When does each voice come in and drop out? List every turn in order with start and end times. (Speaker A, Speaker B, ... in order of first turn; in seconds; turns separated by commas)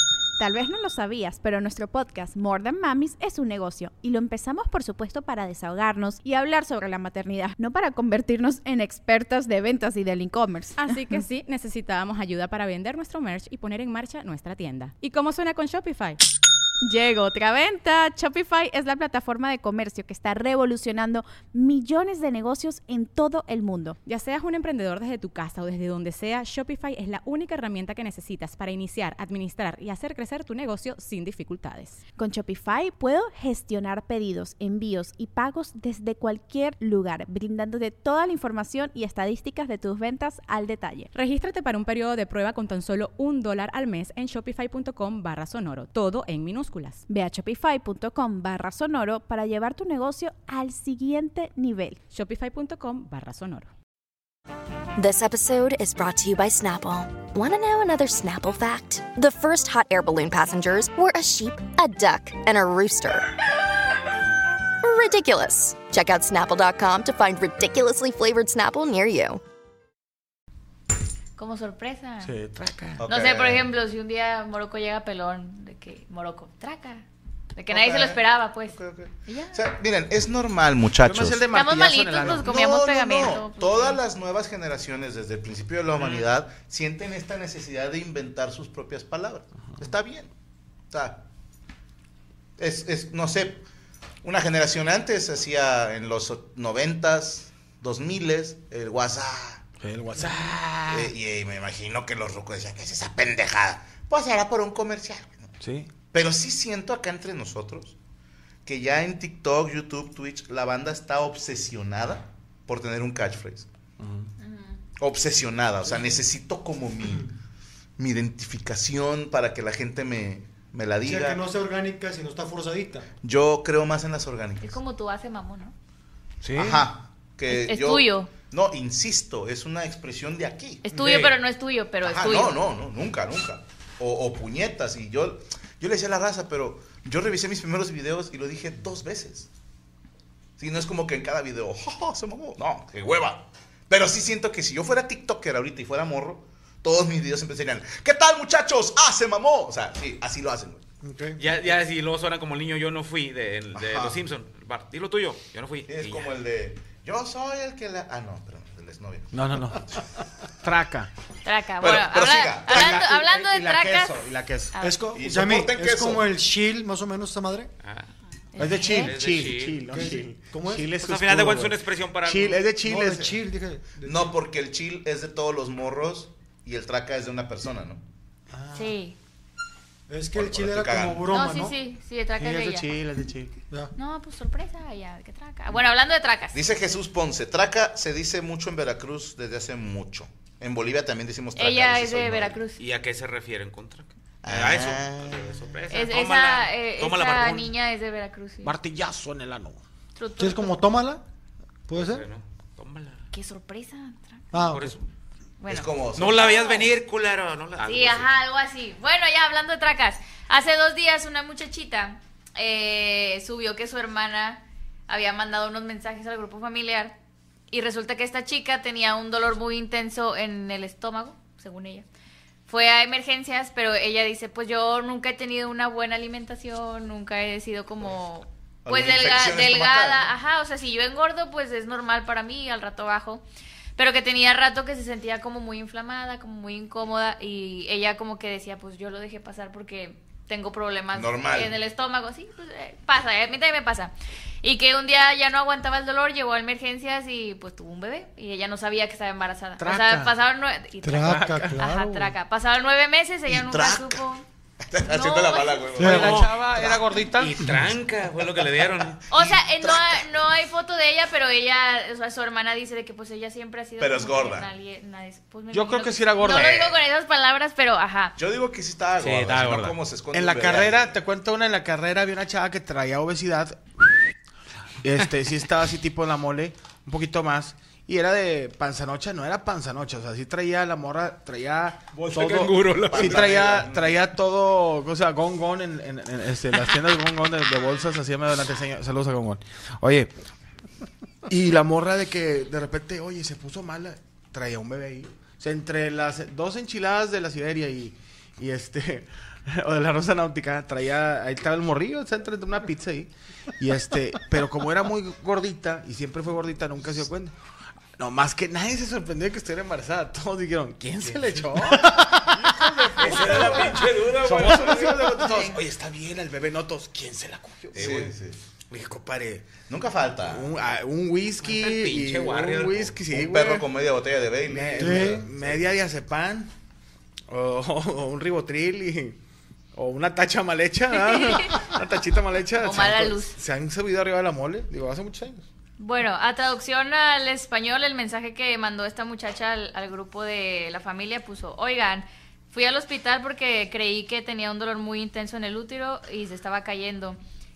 Speaker A: 0.4-11.2, Speaker B: 10.8-16.2, Speaker A: 16.8-24.0, Speaker B: 24.0-32.0, Speaker A: 32.2-41.1, Speaker B: 41.1-47.0, Speaker A: 47.1-52.0, Speaker B: 52.1-53.7, Speaker C: 55.0-63.3, Speaker C: 64.8-69.4, Speaker D: 71.4-72.3, Speaker E: 72.2-73.0, Speaker F: 73.0-73.7, Speaker D: 73.1-77.0, Speaker D: 77.5-79.6, Speaker F: 77.7-81.4, Speaker E: 81.0-82.5, Speaker D: 81.5-84.0, Speaker F: 82.2-90.3, Speaker G: 86.0-86.2, Speaker F: 90.9-91.2, Speaker F: 92.6-93.6, Speaker F: 94.2-99.6, Speaker E: 99.8-101.1, Speaker F: 100.9-105.5, Speaker E: 105.6-105.9, Speaker F: 106.1-108.0, Speaker F: 108.6-113.7, Speaker E: 114.0-114.3, Speaker D: 114.4-114.8, Speaker F: 115.0-117.3, Speaker F: 118.0-121.4, Speaker H: 121.0-123.0, Speaker F: 123.2-124.8, Speaker D: 124.6-125.7, Speaker E: 126.4-126.8, Speaker F: 126.5-130.8, Speaker D: 127.5-128.3, Speaker D: 130.8-132.6, Speaker G: 130.9-131.4, Speaker F: 132.0-139.5, Speaker F: 140.6-150.8, Speaker H: 151.0-151.4, Speaker G: 151.4-156.3, Speaker F: 153.7-154.2, Speaker F: 155.9-160.0, Speaker E: 159.3-159.8, Speaker E: 160.6-161.1, Speaker D: 161.4-164.2, Speaker F: 161.8-163.1, Speaker E: 162.7-164.7, Speaker D: 164.7-165.0, Speaker H: 164.8-167.7, Speaker F: 165.1-166.2, Speaker G: 167.8-168.1, Speaker D: 168.5-169.2, Speaker E: 168.6-173.4, Speaker G: 168.7-169.8, Speaker H: 169.9-170.9, Speaker G: 170.9-172.7, Speaker H: 172.8-174.3, Speaker F: 174.0-178.0, Speaker H: 178.5-178.9, Speaker D: 178.7-179.2, Speaker H: 180.1-181.7, Speaker F: 180.3-181.3, Speaker D: 181.3-182.8, Speaker E: 182.4-183.5, Speaker D: 183.9-186.6, Speaker F: 186.5-192.6, Speaker D: 191.6-192.8, Speaker G: 192.8-197.7, Speaker F: 194.4-195.5, Speaker D: 195.9-198.7, Speaker E: 198.6-199.8, Speaker D: 200.2-200.8, Speaker H: 200.4-201.2, Speaker H: 201.9-202.2, Speaker G: 201.9-203.2, Speaker D: 203.3-204.5, Speaker H: 204.5-204.9, Speaker G: 204.5-205.0, Speaker D: 205.6-206.9, Speaker F: 205.7-206.5, Speaker G: 206.1-208.3, Speaker D: 207.8-217.1, Speaker D: 217.7-222.0, Speaker D: 222.7-233.4, Speaker F: 228.8-230.3, Speaker D: 234.0-254.4, Speaker F: 241.1-241.7, Speaker E: 249.8-250.3, Speaker H: 251.0-252.2, Speaker E: 251.1-252.1, Speaker F: 253.4-254.2, Speaker F: 254.8-257.2, Speaker D: 255.0-255.9, Speaker H: 255.9-256.4, Speaker E: 256.0-257.6, Speaker G: 256.1-256.5, Speaker G: 257.3-259.2, Speaker D: 259.3-268.4, Speaker F: 259.3-260.2, Speaker F: 264.0-264.7, Speaker E: 265.7-266.9, Speaker F: 268.4-271.1, Speaker G: 269.2-270.0, Speaker E: 270.3-274.2, Speaker E: 275.0-290.3, Speaker G: 282.1-283.6, Speaker F: 283.1-284.2, Speaker E: 291.4-307.5, Speaker E: 308.2-318.3, Speaker G: 313.2-315.8, Speaker F: 317.9-318.6, Speaker E: 318.9-319.7, Speaker F: 319.9-320.7, Speaker E: 320.4-323.9, Speaker G: 321.6-323.2, Speaker F: 323.3-325.9, Speaker E: 324.7-326.7, Speaker H: 325.0-325.4, Speaker E: 327.5-329.4, Speaker E: 329.9-335.6, Speaker D: 331.1-331.9, Speaker D: 332.8-333.6, Speaker D: 336.0-347.4